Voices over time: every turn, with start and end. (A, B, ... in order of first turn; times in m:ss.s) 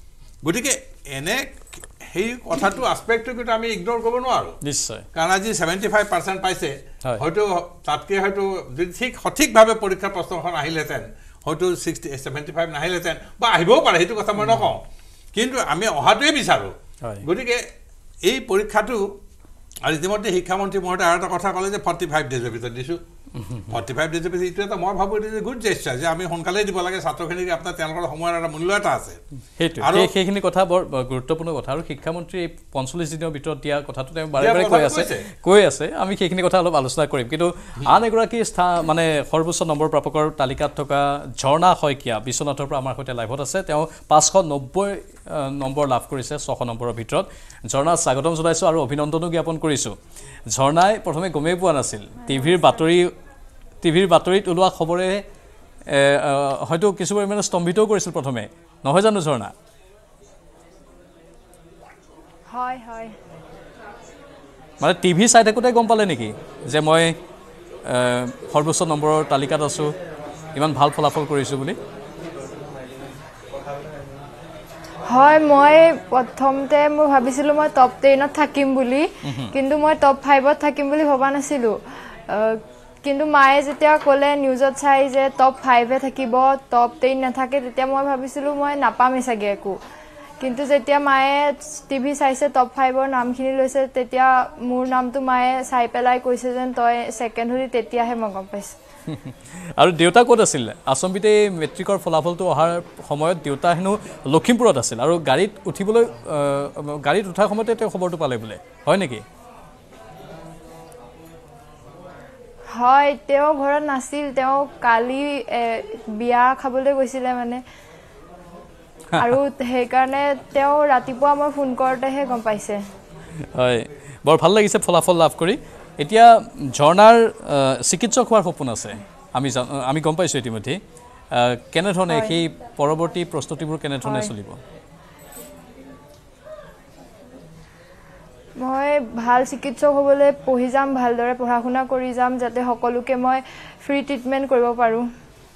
0:00.4-0:04.6 A
0:04.6-0:05.1 B
0:05.1-0:14.8 A
0:15.3-0:17.6 A
0:18.2-0:19.0 A
0:19.8-0:23.0 A
0:23.4-0:23.7 B
0:23.7-0:29.2 A
0:29.6-0:50.0 B
0:29.8-0:30.1 A
0:34.4-0:35.3 A
0:50.5-0:53.1 B
0:53.8-0:55.2 B
0:55.9-0:59.5 B
1:02.5-1:03.1 C
1:04.8-1:07.2 B
1:07.9-1:09.9 B
1:10.5-1:11.8 B
1:15.1-1:29.8 C
1:19.2-1:19.5 B
1:30.4-1:38.7 C
1:39.1-1:49.2 B
1:52.7-1:57.6 C
1:59.1-1:59.4 B
1:59.2-2:02.8 C
2:03.4-2:10.8 B
2:11.3-2:14.6 B
2:12.1-2:12.4 C
2:14.0-2:14.3 C
2:18.6-2:25.0 C